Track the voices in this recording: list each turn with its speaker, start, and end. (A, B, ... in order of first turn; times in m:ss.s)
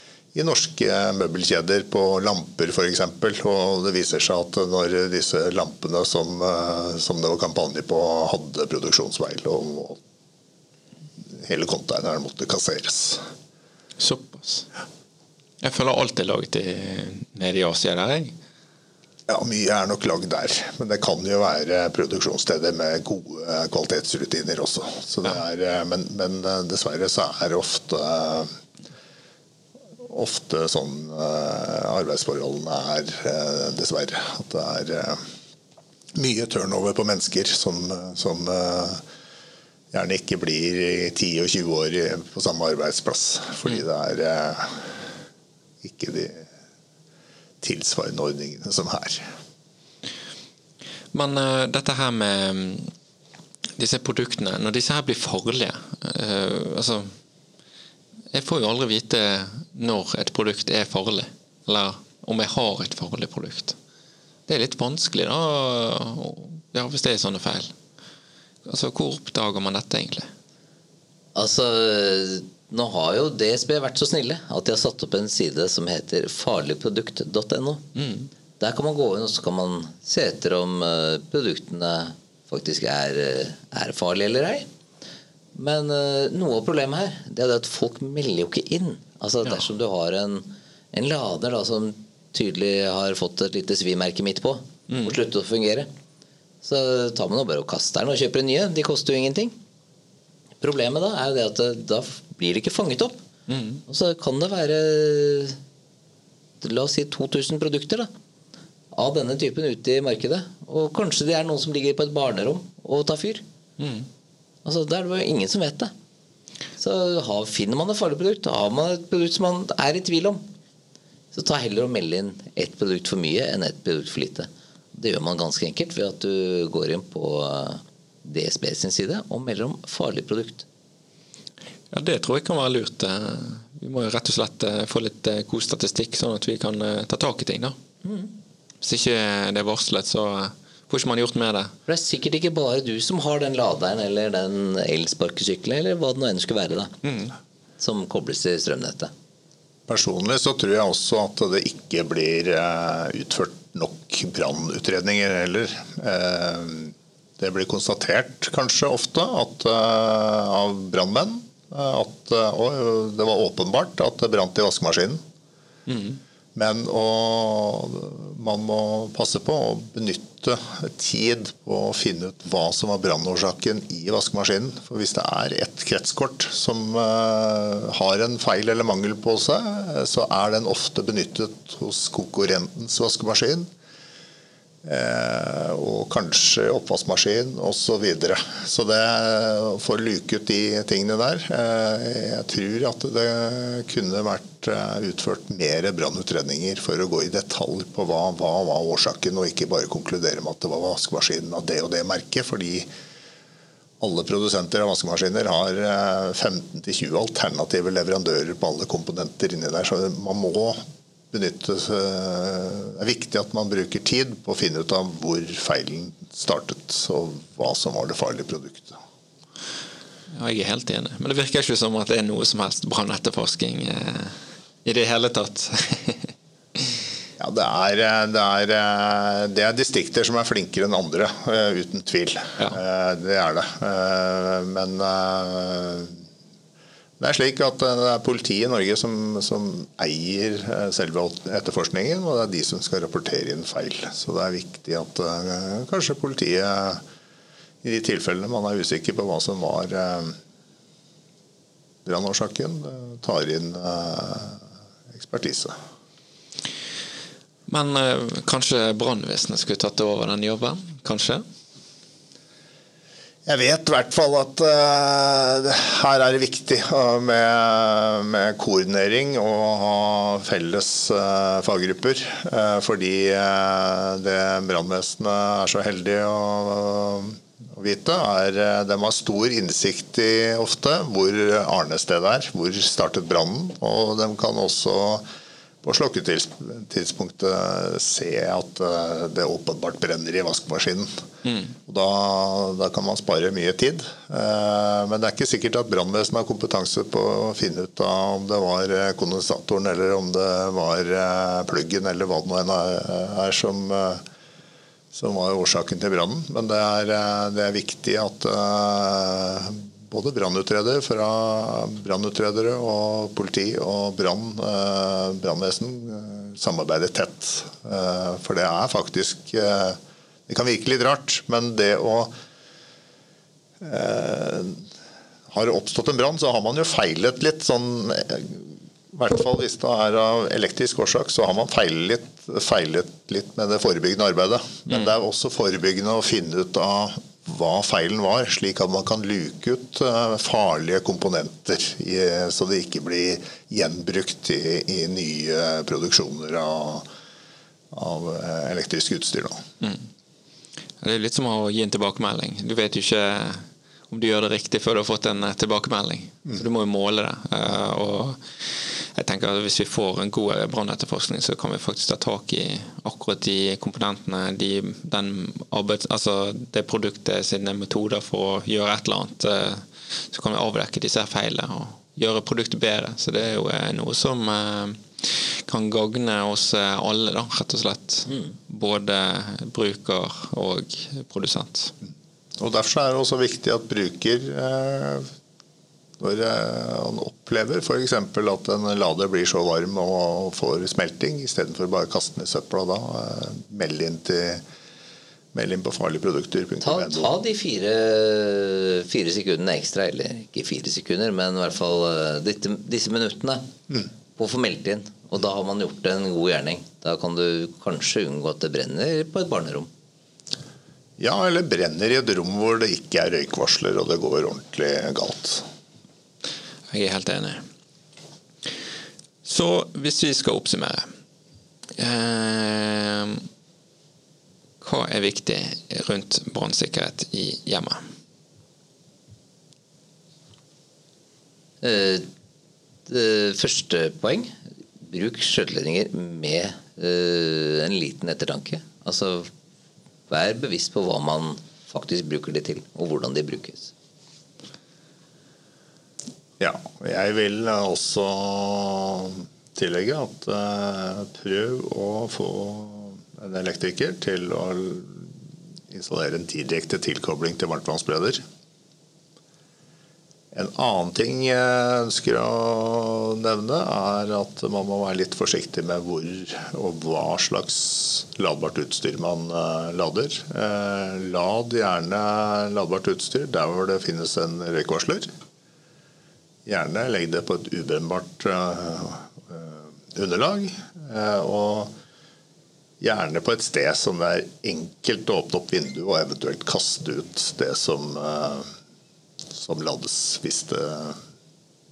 0:00.3-0:10.0 A
0:11.4-0:13.2 A
0:14.0-0:14.7 B
0:15.6-0:18.3 B
0:19.3-0:28.5 A
0:30.0-0:35.2 A
0:36.1-0:39.0 A
0:39.9-0:45.0 A
0:45.8-0:46.5 A
0:47.6-0:49.3 A
0:51.1-0:52.9 B
0:53.8-0:57.1 B
0:58.3-1:03.8 B
1:04.5-1:07.7 B
1:08.6-1:10.3 B
1:11.3-1:17.8 C
1:18.0-1:18.3 B
1:18.6-1:24.7 C
1:25.5-1:35.9 C
1:34.9-1:35.2 B
1:36.6-1:39.5 C
1:40.6-1:43.2 C
1:43.5-1:43.8 B
1:43.9-1:45.6 C
1:46.6-1:48.1 C
1:48.9-1:53.4 C
1:53.8-1:54.1 B
1:54.6-1:55.9 C
1:56.8-2:00.4 C
2:01.3-2:10.6 C
2:11.9-2:17.8 B
2:18.0-2:18.3 C
2:18.8-2:21.7 B
2:21.9-2:26.9 C
2:27.0-2:27.3 B
2:27.8-2:29.1 C
2:29.9-2:45.2 A
2:45.9-2:46.2 B
2:46.5-3:03.7 A
3:04.8-3:22.9 A
3:24.0-3:39.0 A
3:40.3-3:46.9 B
3:47.4-3:56.2 A
3:57.2-4:07.0 A
4:07.8-4:10.4 A
4:12.0-4:15.7 A
4:17.7-4:21.4 B
4:23.4-4:45.2 A
4:45.8-4:51.1 A
4:51.4-4:51.7 B
4:51.9-5:04.2 A
5:05.1-5:22.3 A
5:23.8-5:24.8 A
5:25.5-5:47.0 A
5:47.9-5:49.6 A
5:51.0-6:21.9 B
6:22.6-6:25.3 A
6:26.2-6:34.6 A
6:35.5-6:37.3 A
6:36.8-6:43.6 C
6:44.4-6:49.9 C
6:51.2-6:55.6 A
6:56.9-6:57.6 B
6:59.4-7:01.1 B
7:02.0-7:03.4 B
7:04.8-7:08.0 B
7:11.8-7:12.2 C
7:13.1-7:19.5 C
7:20.3-7:23.9 C
7:26.6-7:35.3 A
7:35.9-7:38.4 A
7:40.5-7:55.3 A
7:56.6-8:01.9 A
8:03.0-8:08.7 A
8:09.5-8:11.2 A